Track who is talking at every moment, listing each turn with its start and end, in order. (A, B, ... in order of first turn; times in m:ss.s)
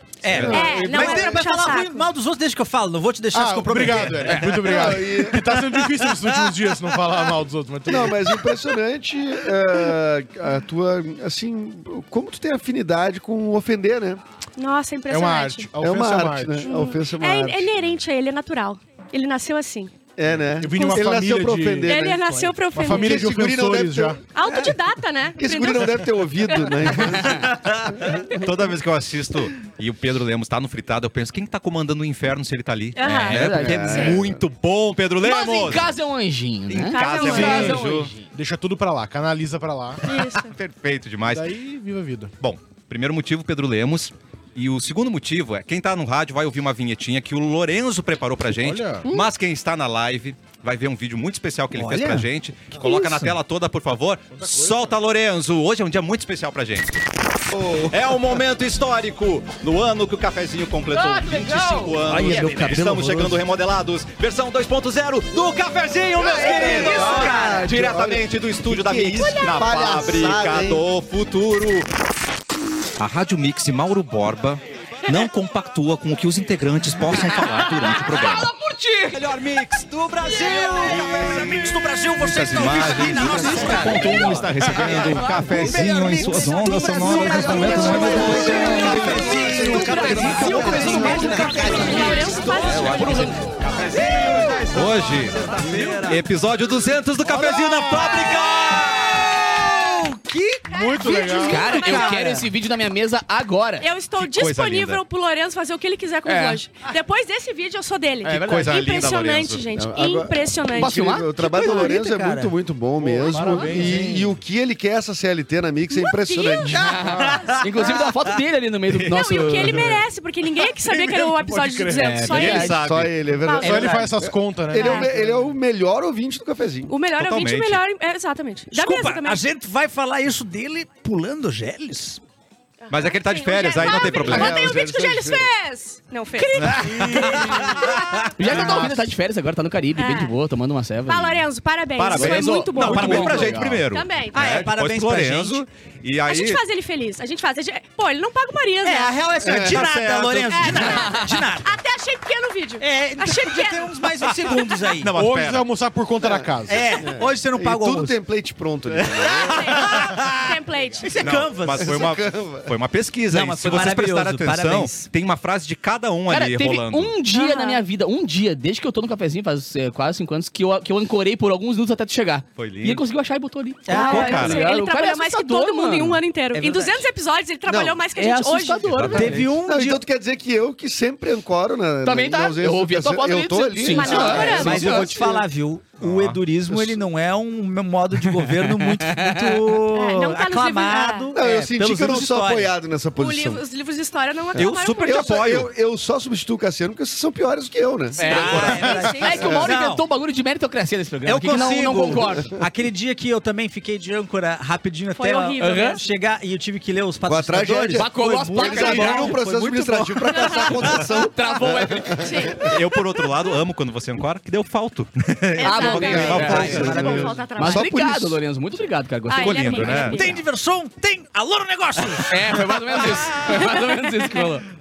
0:00.2-0:04.4 A
0:00.3-0:00.8 B
0:00.3-0:01.2 C
0:00.5-0:02.1 D
0:03.3-0:08.3 E
0:04.0-0:04.8 B
0:04.2-0:04.6 F
0:04.7-0:05.5 C
0:07.9-0:14.2 C
0:14.6-0:15.7 D
0:15.1-0:16.7 E
0:15.8-0:17.7 C
0:16.6-0:19.9 D
0:20.2-0:24.2 C
0:20.6-0:22.0 E
0:21.9-0:23.3 D
0:22.7-0:24.2 E
0:24.3-0:26.0 D
0:25.4-0:28.1 C
0:26.5-0:27.3 D
0:27.0-0:27.4 F
0:27.4-0:35.9 B
0:28.1-0:28.5 D
0:33.0-0:34.2 D
0:33.0-0:34.1 F
0:33.4-0:34.4 C
0:35.2-0:35.9 D
0:35.6-0:38.3 F
0:36.7-0:38.1 B
0:36.9-0:37.8 D
0:37.3-0:40.1 E
0:40.0-0:40.5 D
0:40.4-0:41.5 B
0:41.3-0:42.3 E
0:42.4-0:57.0 B
0:48.6-0:49.1 E
0:51.8-0:53.4 A
0:54.3-0:54.9 E
0:57.5-0:58.0 C
0:57.9-1:11.9 B
1:00.9-1:02.4 F
1:02.0-1:03.4 A
1:06.2-1:07.7 F
1:06.3-1:07.7 A
1:06.3-1:10.8 C
1:13.0-1:18.5 B
1:17.1-1:19.3 F
1:19.1-1:40.0 B
1:20.2-1:24.2 A
1:20.3-1:21.0 F
1:23.0-1:28.0 F
1:25.5-1:36.2 A
1:27.5-1:32.2 C
1:29.4-1:33.3 D
1:29.7-1:33.6 F
1:37.2-1:42.5 A
1:37.2-1:38.2 E
1:38.0-1:38.4 D
1:40.7-1:41.8 E
1:40.7-1:42.3 D
1:41.1-1:43.9 F
1:43.8-1:52.0 D
1:44.2-1:45.0 B
1:46.2-1:46.6 F
1:48.2-1:49.7 B
1:48.3-1:48.7 F
1:49.7-1:57.0 C
1:50.7-1:51.3 F
1:51.4-1:52.5 A
1:53.0-1:54.4 E
1:53.5-1:53.8 D
1:55.9-1:57.0 D
1:56.7-1:58.1 A
1:56.7-2:00.0 F
1:57.0-1:57.4 E
1:58.9-1:59.8 B
1:59.1-2:04.1 D
2:00.6-2:02.6 E
2:01.9-2:02.8 F
2:02.2-2:03.2 B
2:02.6-2:06.9 C
2:03.6-2:05.2 E
2:04.8-2:05.1 D
2:06.9-2:09.4 D
2:07.1-2:07.8 B
2:08.7-2:12.2 A
2:12.8-2:18.6 D
2:12.9-2:14.8 B
2:14.2-2:15.5 C
2:16.6-2:18.7 B
2:16.6-2:18.8 A
2:16.7-2:19.1 E
2:18.4-2:21.5 F
2:20.0-2:20.4 D
2:21.1-2:24.7 D
2:22.0-2:26.6 B
2:22.1-2:23.8 F
2:22.8-2:23.5 A
2:24.3-2:25.6 A
2:26.3-2:29.2 D
2:28.8-2:31.8 A
2:29.4-2:29.9 C
2:29.6-2:30.9 B
2:30.6-2:34.6 D
2:30.8-2:31.3 F
2:32.8-2:35.1 A
2:35.0-2:35.7 B
2:35.1-2:36.9 E
2:36.2-2:39.9 C
2:36.7-2:38.2 A
2:39.0-2:40.4 B
2:39.2-2:41.2 D
2:39.6-2:40.5 A
2:41.0-2:42.0 A
2:41.2-2:47.2 B
2:41.6-2:42.7 C
2:43.3-2:45.1 A
2:46.3-2:56.2 F
2:47.3-2:47.8 D
2:52.6-2:53.0 B
2:53.9-2:54.6 A
2:53.9-2:58.9 D
2:53.9-2:54.7 B
2:56.5-2:57.1 A
2:57.7-2:58.0 C
2:58.2-2:59.5 F
2:58.8-2:59.5 B
2:59.1-3:00.0 A
2:59.6-3:05.2 C
3:02.0-3:05.3 F
3:03.9-3:05.3 D
3:04.2-3:12.7 A
3:06.0-3:06.4 B
3:08.6-3:09.7 F
3:09.9-3:11.3 D
3:11.3-3:13.6 C
3:13.2-3:15.3 D
3:14.6-3:15.7 B
3:14.6-3:19.7 C
3:18.2-3:19.5 D
3:18.2-3:22.5 F
3:18.4-3:20.0 A
3:18.5-3:18.9 B
3:21.3-3:31.1 A
3:22.1-3:22.5 C
3:25.2-3:26.0 D
3:25.6-3:26.0 F
3:27.3-3:32.7 C
3:27.9-3:29.4 F
3:28.8-3:29.2 E
3:30.3-3:30.7 D
3:31.1-3:32.5 F
3:32.2-3:33.6 D
3:32.6-3:37.2 B
3:35.6-3:37.9 D
3:35.6-3:37.0 F
3:36.0-3:38.4 C
3:36.2-3:37.4 A
3:37.5-3:40.2 F
3:39.3-3:40.4 D
3:39.3-3:40.2 B
3:40.0-3:42.8 A
3:42.3-3:44.6 F
3:43.0-3:43.6 B
3:43.4-3:44.6 D